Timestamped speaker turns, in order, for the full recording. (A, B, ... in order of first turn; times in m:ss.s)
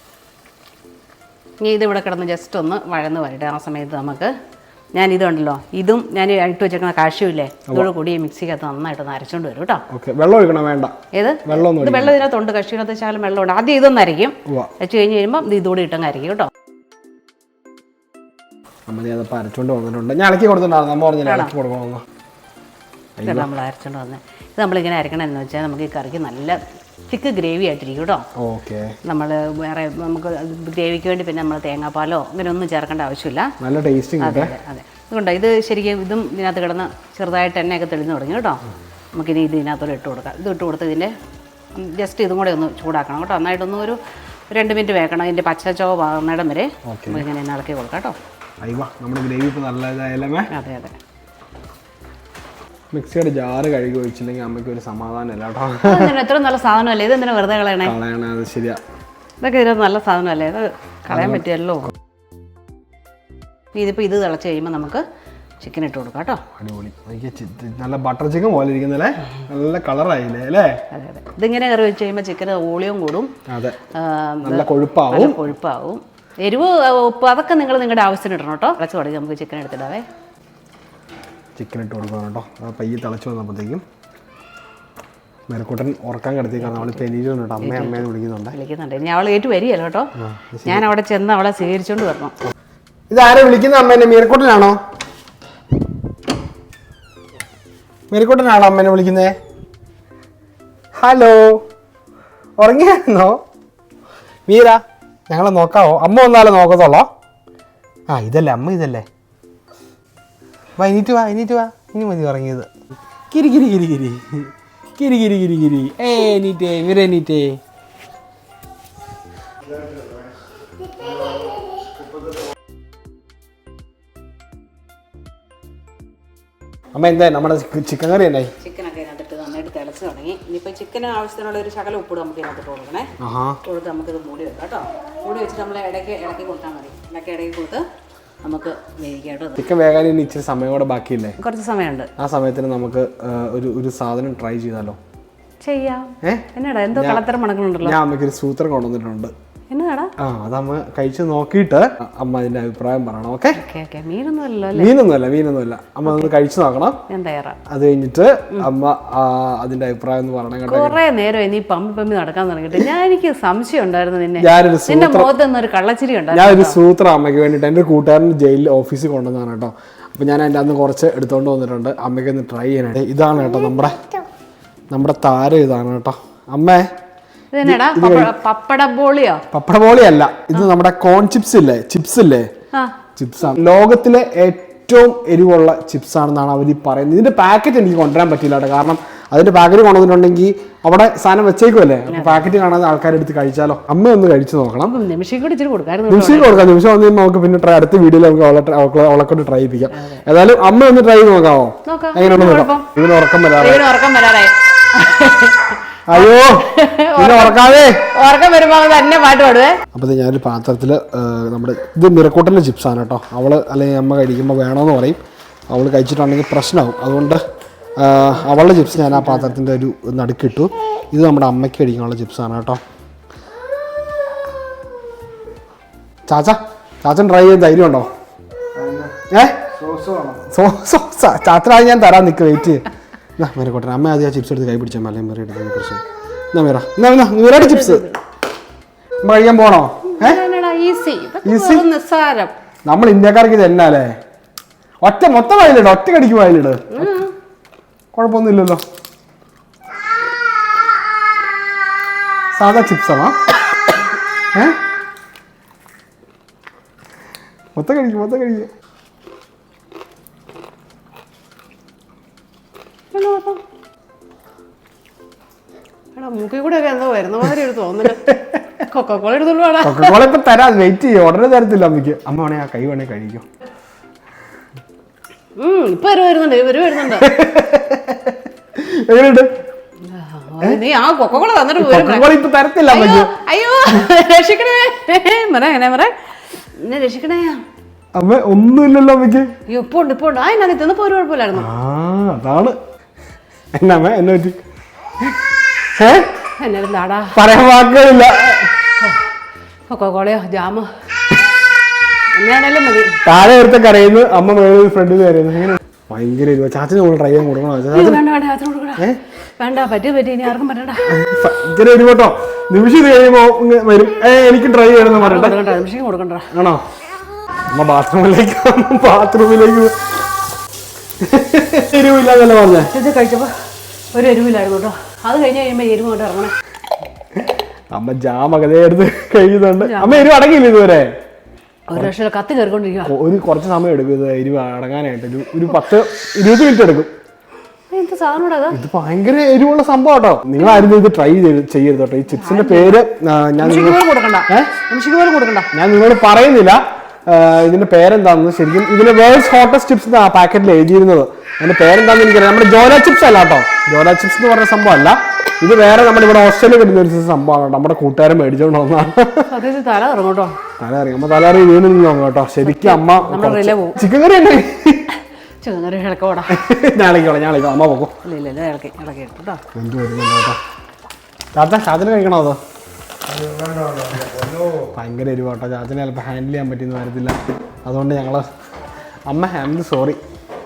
0:01.6-0:04.3 A
0:04.9-0:09.8 A
0:09.9-0:10.9 B
0:11.1-0:16.5 A
0:11.4-0:12.2 B
0:18.9-0:22.0 B
0:21.2-0:21.5 A
0:23.2-0:23.5 B
0:23.2-0:26.6 A
0:27.1-0:28.2 A
0:28.4-0:29.0 B
0:29.0-0:33.5 A
0:33.6-0:34.5 B
0:34.2-0:38.6 A
0:39.1-0:41.1 A
0:41.7-0:44.0 A
0:44.5-0:48.2 A
0:46.9-0:47.2 B
0:48.6-0:50.5 B
0:50.5-0:50.9 A
0:52.9-0:56.1 B
0:55.8-0:57.9 A
0:57.8-0:58.8 B
0:59.4-1:01.9 A
1:01.1-1:01.5 B
1:03.7-1:05.0 A
1:05.6-1:06.4 A
1:06.6-1:10.8 B
1:10.9-1:13.3 A
1:13.5-1:13.8 B
1:13.9-1:20.0 A
1:14.4-1:15.5 B
1:21.6-1:23.8 B
1:25.5-1:28.6 B
1:26.6-1:27.0 A
1:27.6-1:30.1 A
1:30.2-1:30.8 B
1:30.6-1:32.3 A
1:33.1-1:34.8 B
1:38.1-1:39.4 B
1:41.0-1:41.6 B
1:42.6-1:43.4 B
1:44.5-1:47.1 B
1:48.1-1:49.0 B
1:50.8-1:52.7 B
1:53.3-1:57.6 B
2:06.9-2:08.5 B
2:08.6-2:13.1 A
2:13.2-2:13.6 B
2:13.6-2:17.8 A
2:18.4-2:19.6 A
2:19.6-2:21.4 B
2:21.4-2:22.1 A
2:22.2-2:25.0 B
2:25.6-2:28.0 A
2:26.2-2:27.2 B
2:27.8-2:29.3 B
2:29.7-2:30.1 A
2:30.2-2:33.6 B
2:33.6-2:34.9 A
2:34.7-2:37.0 B
2:37.1-2:37.6 A
2:37.7-2:41.0 B
2:40.7-2:46.8 A
2:44.4-2:45.3 B
2:46.3-2:54.1 B
2:54.9-2:56.9 B
2:57.5-2:59.4 A
2:57.6-2:58.3 B
2:59.5-3:02.5 B
3:03.2-3:15.0 B
3:12.1-3:12.4 A
3:14.9-3:16.7 A
3:16.1-3:23.8 B
3:19.9-3:20.2 A
3:21.8-3:22.9 A
3:23.6-3:29.8 A
3:26.1-3:28.1 B
3:29.9-3:35.2 B
3:35.7-3:37.4 B
3:38.0-3:42.8 B
3:38.4-3:39.6 A
3:46.3-3:48.1 B
3:49.2-3:52.8 B
3:49.9-3:50.4 C
3:53.4-3:56.0 B
3:56.5-3:58.0 B
3:57.5-3:58.2 A
3:59.2-4:00.4 B
4:00.1-4:02.5 A
4:01.4-4:01.8 B
4:02.8-4:04.1 B
4:05.0-4:07.1 B
4:06.9-4:07.3 A
4:08.1-4:08.8 B
4:12.5-4:13.4 B
4:17.7-4:18.7 B
4:23.1-4:23.6 A
4:26.1-4:28.3 A
4:28.2-4:28.6 B
4:28.9-4:30.2 A
4:29.8-4:33.4 B
4:35.6-4:37.3 A
4:37.1-4:39.5 B
4:40.0-4:42.3 A
4:41.8-4:43.3 B
4:42.9-4:47.6 A
4:48.1-4:49.5 B
4:49.7-4:51.7 A
4:51.5-4:52.8 B
4:53.7-4:54.6 B
4:56.0-4:56.3 B
4:56.6-4:57.4 A
4:57.3-4:58.7 B
4:59.0-4:59.2 A
4:59.9-5:00.9 A
5:02.3-5:03.2 A
5:03.2-5:08.2 B
5:07.9-5:09.0 A
5:09.6-5:11.1 A
5:11.1-5:15.6 B
5:15.0-5:16.5 A
5:16.5-5:16.8 B
5:17.7-5:19.9 B
5:21.2-5:22.9 B
5:22.8-5:23.5 A
5:24.1-5:26.5 A
5:27.9-5:31.1 B
5:29.8-5:30.3 A
5:31.9-5:33.1 A
5:33.0-5:37.1 B
5:37.9-5:38.8 A
5:38.7-5:44.7 B
5:40.6-5:40.9 A
5:42.3-5:43.0 A
5:43.6-5:45.7 A
5:45.7-5:59.5 B
5:59.5-6:00.6 A
6:00.8-6:05.0 B
6:02.6-6:04.0 A
6:05.6-6:06.6 A
6:06.5-6:08.2 B
6:08.2-6:09.6 A
6:09.7-6:10.6 B
6:11.5-6:12.6 B
6:13.3-6:14.8 C
6:14.8-6:18.4 B
6:19.3-6:20.2 B